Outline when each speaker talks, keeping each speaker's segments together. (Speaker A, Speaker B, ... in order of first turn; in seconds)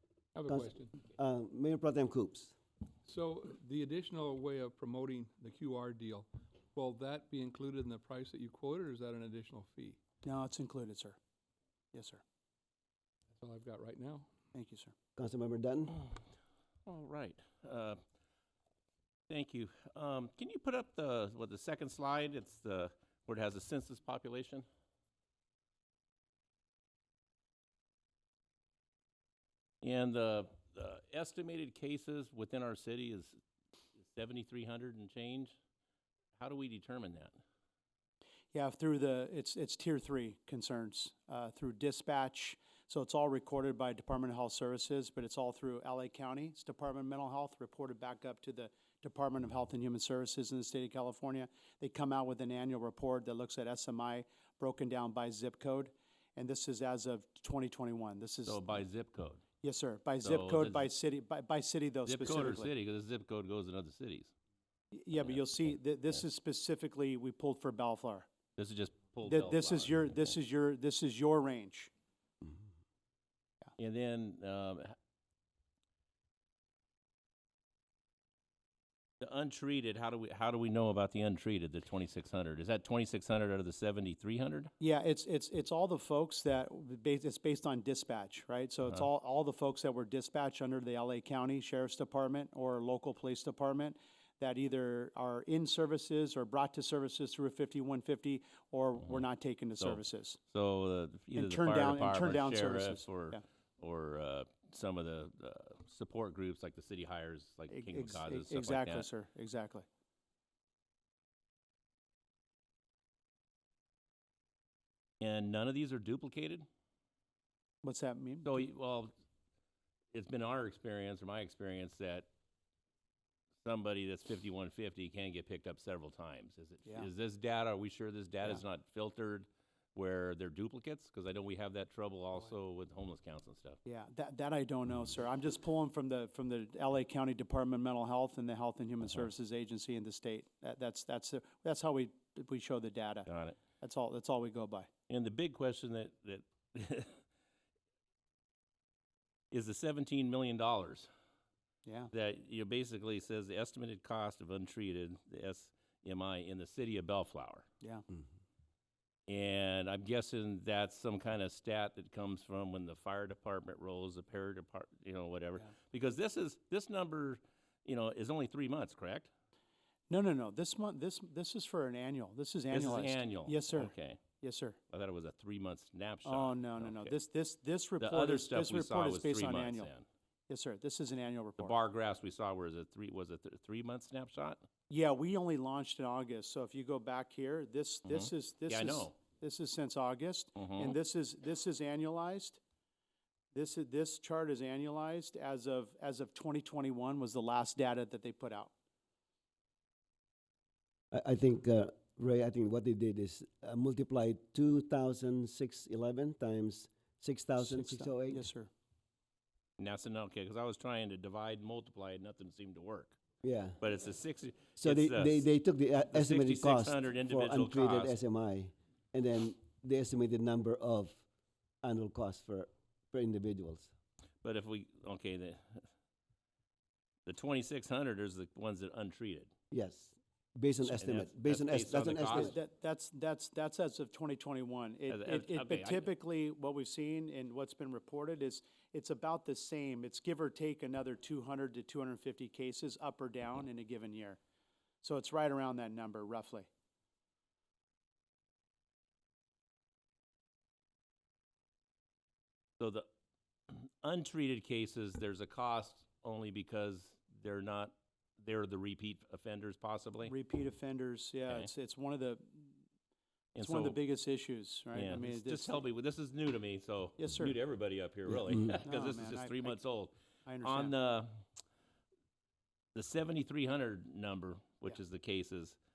Speaker A: 0.3-1.0, 3.0-10.0, 13.3-14.3
Speaker B: 0.5-2.5, 15.2-16.0, 201.1-208.5, 213.4-213.8, 214.8-221.2, 221.8-223.9, 229.7-232.5
Speaker C: 10.2-11.2, 11.9-12.2, 14.5-14.9, 38.5-58.8, 59.6-62.7, 64.9-68.3, 69.2-71.9, 84.8-100.4, 101.3-103.4, 107.7-109.8, 117.8-118.6, 133.8-144.9, 151.8-152.1, 170.1-174.8, 176.2-179.9, 180.5-181.7, 184.9-192.6, 193.5-198.7, 207.6-208.7, 232.3-244.4, 245.0-246.7, 260.2-262.8, 263.6-265.9, 267.2-267.6, 268.8-269.8, 270.4-270.9
Speaker D: 16.9-18.0, 19.3-24.6, 29.8-33.4, 34.0-35.5, 36.4-37.4, 58.4-59.4, 60.2-60.9, 62.0-64.3, 65.2-65.7, 68.6-70.0, 73.8-75.0, 79.2-84.7, 99.8-109.1, 115.2-116.7, 118.4-119.1, 120.1-122.3, 123.6-133.8, 143.2-143.6, 145.1-147.2, 149.5-151.1, 152.1-157.7, 159.3-169.3, 172.7-174.2, 174.9-177.2, 178.0-180.1, 181.6-184.6, 188.1-189.2, 190.6-191.0, 209.8-213.2, 213.8-215.5, 216.1-218.2, 224.4-225.8, 227.2-229.5, 230.8-232.6, 235.1-236.1, 252.8-253.1, 253.7-260.3, 263.5-264.0, 264.9-271.4, 272.9-275.8